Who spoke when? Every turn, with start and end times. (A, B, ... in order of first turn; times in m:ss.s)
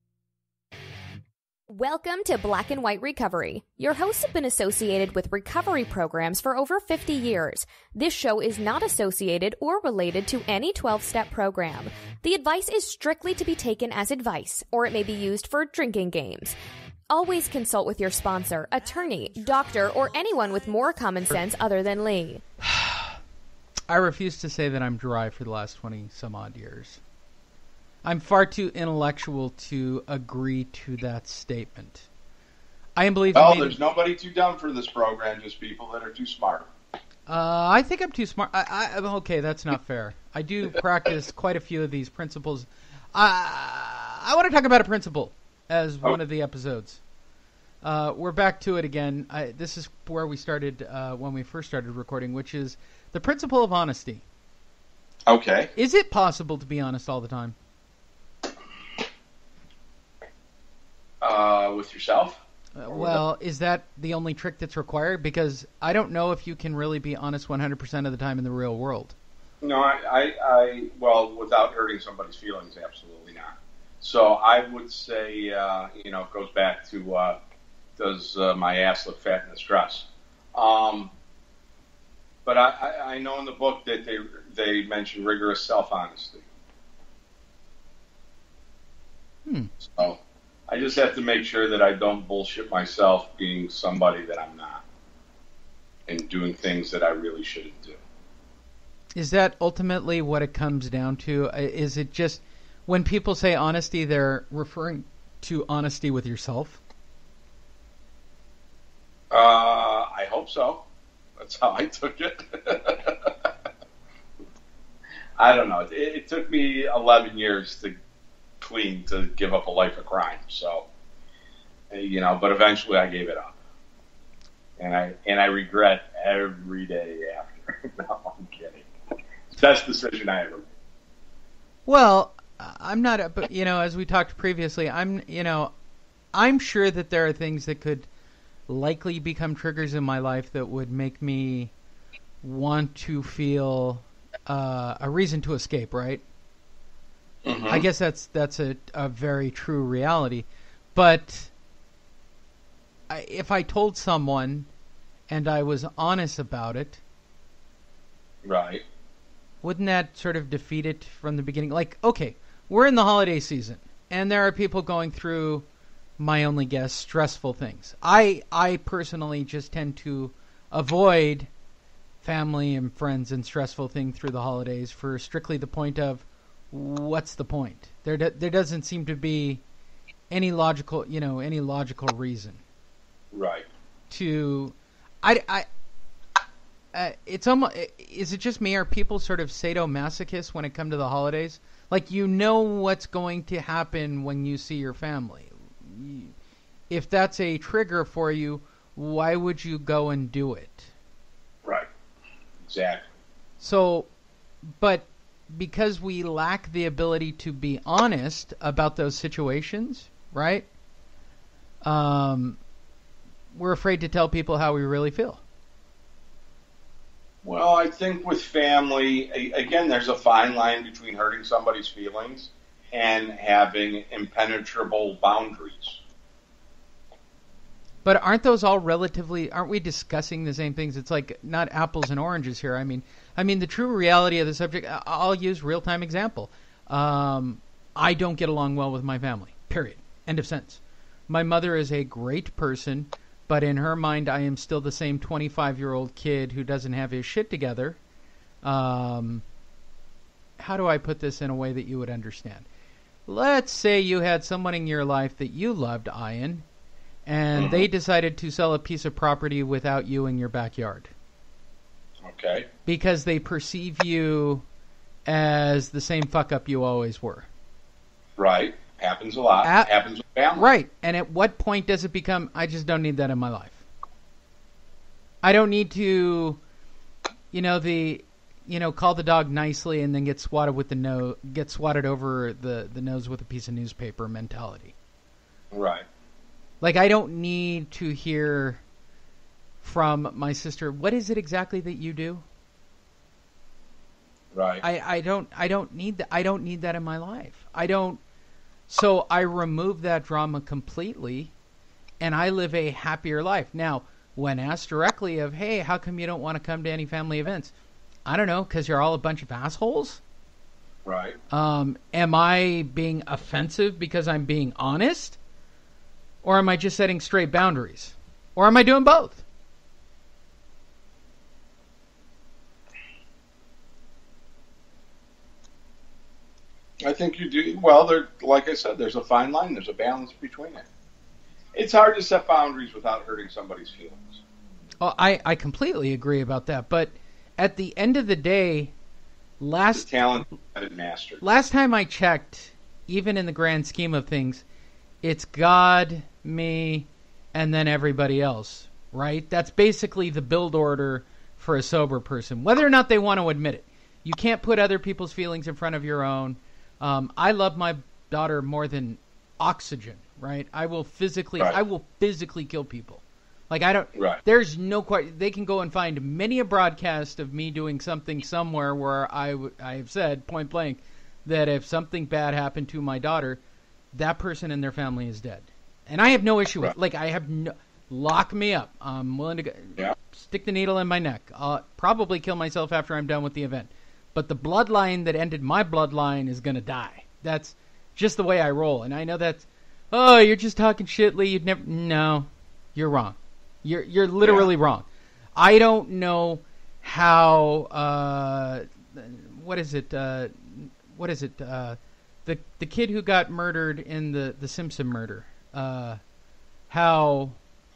0:01.7-0:16.6 A
0:17.1-0:22.4 A
0:22.8-0:23.1 B
0:23.9-0:27.0 B
0:28.0-0:32.1 B
0:33.0-0:33.8 B
0:33.3-0:36.7 C
0:37.3-0:47.0 B
0:47.8-0:54.2 B
0:55.3-0:55.7 C
0:55.7-0:57.6 B
1:01.2-1:03.2 C
1:02.8-1:09.2 B
1:09.6-1:17.4 C
1:18.0-1:21.1 C
1:22.4-1:26.5 C
1:29.4-1:29.7 B
1:29.8-1:34.8 C
1:36.1-1:38.0 C
1:39.1-1:46.8 B
1:49.3-1:50.8 C
1:51.4-1:53.5 C
1:55.4-1:57.9 C
1:58.6-2:00.9 C
2:01.9-2:03.5 C
2:04.8-2:08.8 C
2:09.5-2:10.6 C
2:11.8-2:15.7 B
2:16.3-2:18.1 B
2:18.7-2:21.7 B
2:22.4-2:26.2 B
2:27.4-2:27.8 C
2:27.7-2:31.5 B
2:33.1-2:34.7 B
2:35.3-2:37.0 B
2:38.4-2:38.8 C
2:39.6-2:45.6 B
2:46.2-2:51.5 B
2:52.2-2:59.6 B
3:00.3-3:02.6 B
3:03.3-3:03.7 C
3:04.1-3:05.6 B
3:06.9-3:16.3 B
3:16.9-3:20.9 B
3:22.6-3:23.1 C
3:23.6-3:24.1 B
3:24.6-3:30.7 B
3:31.8-3:32.6 B
3:33.5-3:35.4 B
3:37.4-3:46.0 C
3:48.0-4:08.0 B
4:08.6-4:09.4 B
4:10.6-4:12.6 B
4:13.2-4:16.6 B
4:17.2-4:21.1 B
4:17.5-4:17.9 C
4:22.2-4:22.7 C
4:22.8-4:24.6 B
4:25.2-4:27.5 B
4:28.4-4:30.6 C
4:29.6-4:29.9 B
4:30.5-4:33.8 B
4:35.4-4:36.6 B
4:37.5-4:44.9 B
4:45.7-4:46.0 C
4:46.8-4:48.8 B
4:49.8-4:52.4 B
4:54.5-4:54.8 C
4:54.8-4:58.2 B
4:58.9-5:01.5 B
5:02.2-5:07.7 B
5:08.2-5:10.2 B
5:11.0-5:11.4 C
5:11.5-5:15.4 B
5:16.4-5:19.4 B
5:27.0-5:30.8 C
5:31.7-5:34.4 C
5:35.0-5:38.9 B
5:39.6-5:40.2 B
5:39.9-5:41.4 C
5:41.4-5:44.6 B
5:45.2-6:13.6 B
6:04.1-6:04.4 C
6:14.1-6:46.2 B
6:34.4-6:34.7 C
6:46.9-6:47.6 B